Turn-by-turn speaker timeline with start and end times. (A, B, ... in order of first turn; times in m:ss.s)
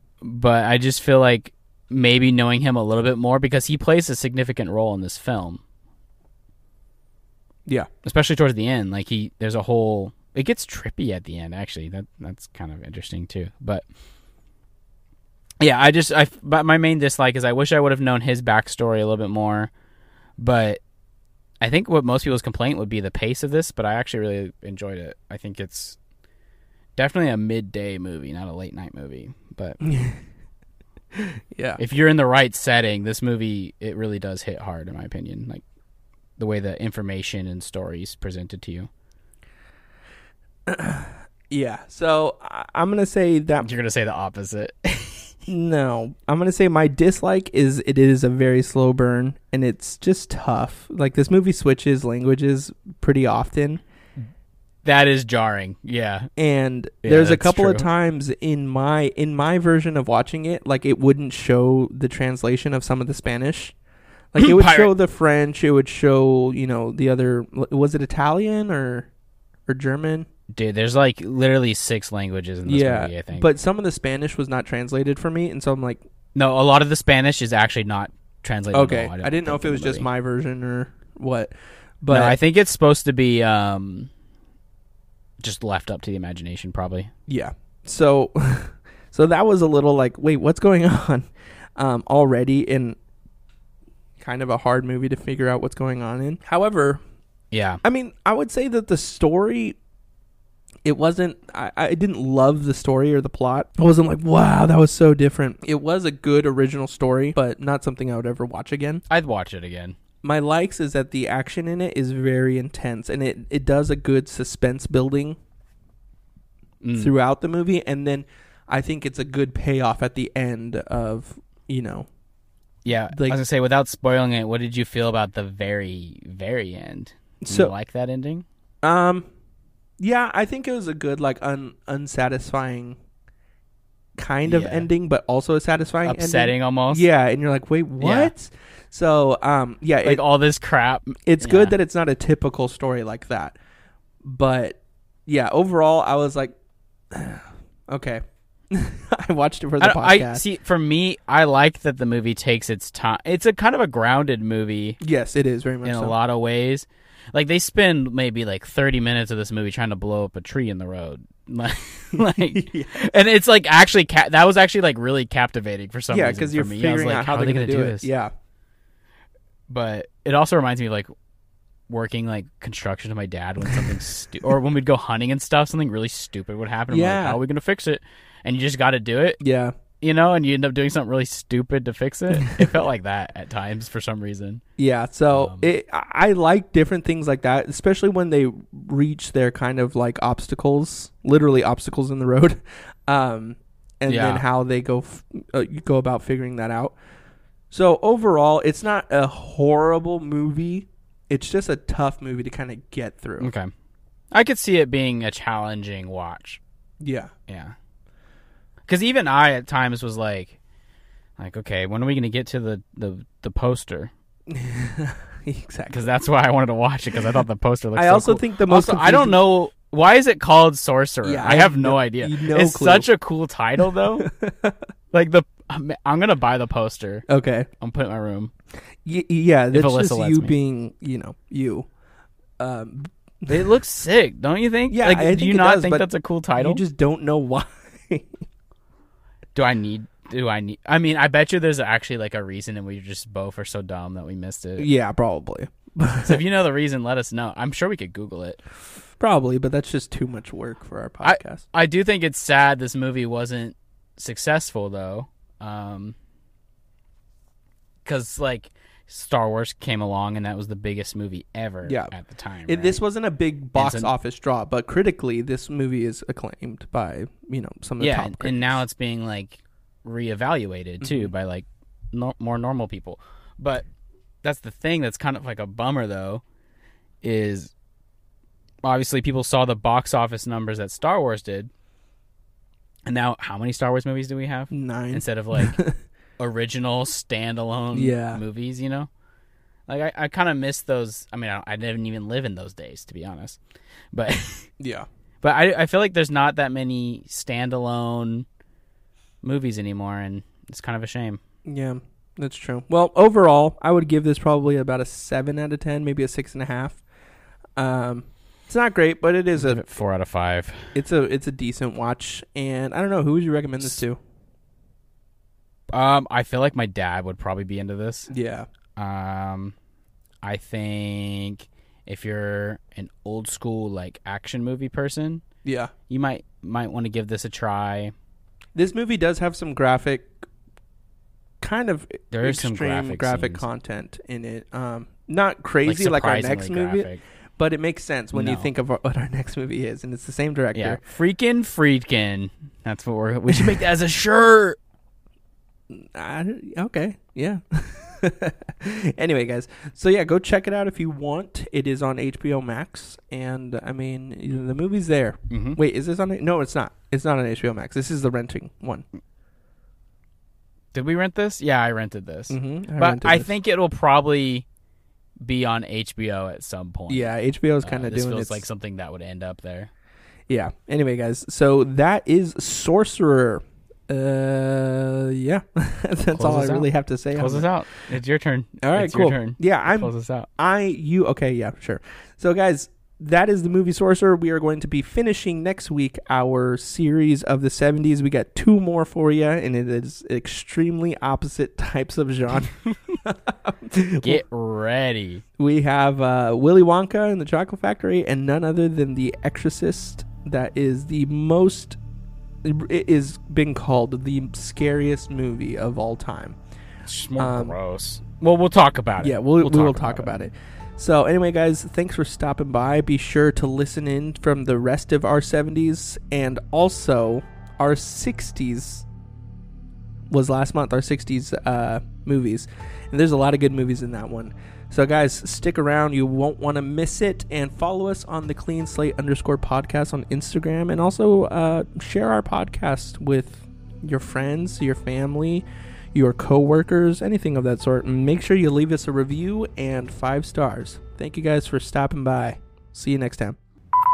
0:00.2-0:05.6 A
0:08.0-0:13.8 A
0:15.6-0:19.7 A
0:20.4-0:20.8 A
0:21.6-0:26.0 A
0:27.0-0:29.8 A
0:29.8-0:30.2 B
0:31.1-0:31.8 B
0:31.8-0:35.6 A
0:36.4-0:38.9 A
0:40.7-0:43.7 B
0:43.6-0:45.3 A
0:45.5-0:53.8 B
0:54.8-0:56.3 A
0:56.4-1:03.7 B
0:57.0-0:57.9 A
1:04.3-1:09.1 B
1:04.4-1:04.9 A
1:09.7-1:10.2 B
1:10.5-1:13.5 A
1:12.6-1:16.0 B
1:16.3-1:20.1 A
1:18.7-1:22.4 B
1:22.1-1:24.1 A
1:25.4-1:27.1 A
1:27.3-1:33.0 B
1:34.2-1:37.0 B
1:37.5-1:37.8 A
1:37.8-1:39.8 B
1:40.8-1:49.0 B
1:49.1-1:50.0 A
1:50.2-1:55.4 B
1:56.8-1:57.2 A
1:56.9-2:02.1 B
2:02.8-2:08.4 A
2:03.1-2:03.4 B
2:07.4-2:07.7 B
2:08.8-2:09.3 B
2:10.0-2:13.0 B
2:14.2-2:20.2 B
2:14.4-2:14.9 A
2:16.0-2:17.0 A
2:18.0-2:18.3 A
2:20.0-2:21.8 A
2:21.3-2:23.6 B
2:24.2-2:26.5 B
2:27.1-2:30.5 B
2:29.8-2:35.0 A
2:35.0-2:36.2 B
2:35.8-2:48.1 A
2:42.1-2:43.0 B
2:46.1-2:48.3 B
2:49.7-2:51.1 A
2:51.9-2:59.4 A
2:56.9-2:57.4 B
2:59.4-2:59.7 B
3:00.0-3:04.6 A
3:02.3-3:02.8 B
3:04.8-3:17.0 B
3:05.3-3:05.7 A
3:14.1-3:14.4 A
3:17.7-3:23.5 B
3:23.4-3:23.7 A
3:24.3-3:26.6 A
3:27.0-3:27.3 B
3:27.5-3:27.7 A
3:28.9-3:30.6 A
3:31.4-3:34.1 A
3:34.5-3:36.1 B
3:35.9-3:44.3 A
3:37.9-3:39.4 B
3:41.2-3:43.1 B
3:44.2-3:44.7 B
3:45.1-3:47.2 A
3:47.3-3:47.7 B
3:47.8-3:48.5 A
3:49.0-3:51.9 B
3:49.7-3:50.6 A
3:52.6-3:53.7 B
3:53.5-3:56.8 A
3:54.9-3:58.3 B
3:59.5-4:04.9 A
4:04.8-4:06.4 B
4:06.2-4:08.6 A
4:09.2-4:11.6 B
4:11.2-4:16.2 A
4:18.0-4:23.0 A
4:21.8-4:22.1 B
4:22.6-4:28.8 B
4:23.7-4:24.1 A
4:28.0-4:33.8 A
4:31.0-4:31.3 B
4:34.4-4:36.4 A
4:37.2-4:37.7 A
4:38.8-4:41.7 A
4:43.0-4:45.8 A
4:44.7-4:46.0 B
4:46.4-4:49.1 A
4:47.9-4:48.4 B
4:49.9-4:53.6 A
4:54.1-4:54.7 A
4:54.8-4:55.0 B
4:55.4-4:58.4 A
4:59.4-5:01.4 A
5:01.6-5:07.0 B
5:07.8-5:09.8 B
5:09.5-5:10.9 A
5:10.9-5:14.2 B
5:15.9-5:18.3 A
5:18.3-5:18.7 B
5:19.0-5:19.7 A
5:20.4-5:25.4 A
5:25.6-5:25.9 B
5:26.1-5:28.1 A
5:28.8-5:30.4 B
5:31.6-5:41.0 B
5:32.3-5:33.7 A
5:35.8-5:37.2 A
5:38.3-5:38.7 A
5:40.7-5:44.8 A
5:43.5-5:43.8 B
5:45.9-5:59.0 B
5:55.5-5:55.8 A
6:00.9-6:04.6 A
6:02.5-6:03.5 B
6:05.4-6:09.9 A
6:07.1-6:08.6 B
6:10.5-6:17.7 B
6:16.3-6:20.5 A
6:18.8-6:34.4 B
6:34.2-6:35.4 A
6:35.6-6:42.0 B
6:42.6-6:46.6 B
6:47.0-6:50.4 A
6:47.4-6:47.8 B
6:49.2-6:59.0 B
7:00.3-7:23.6 B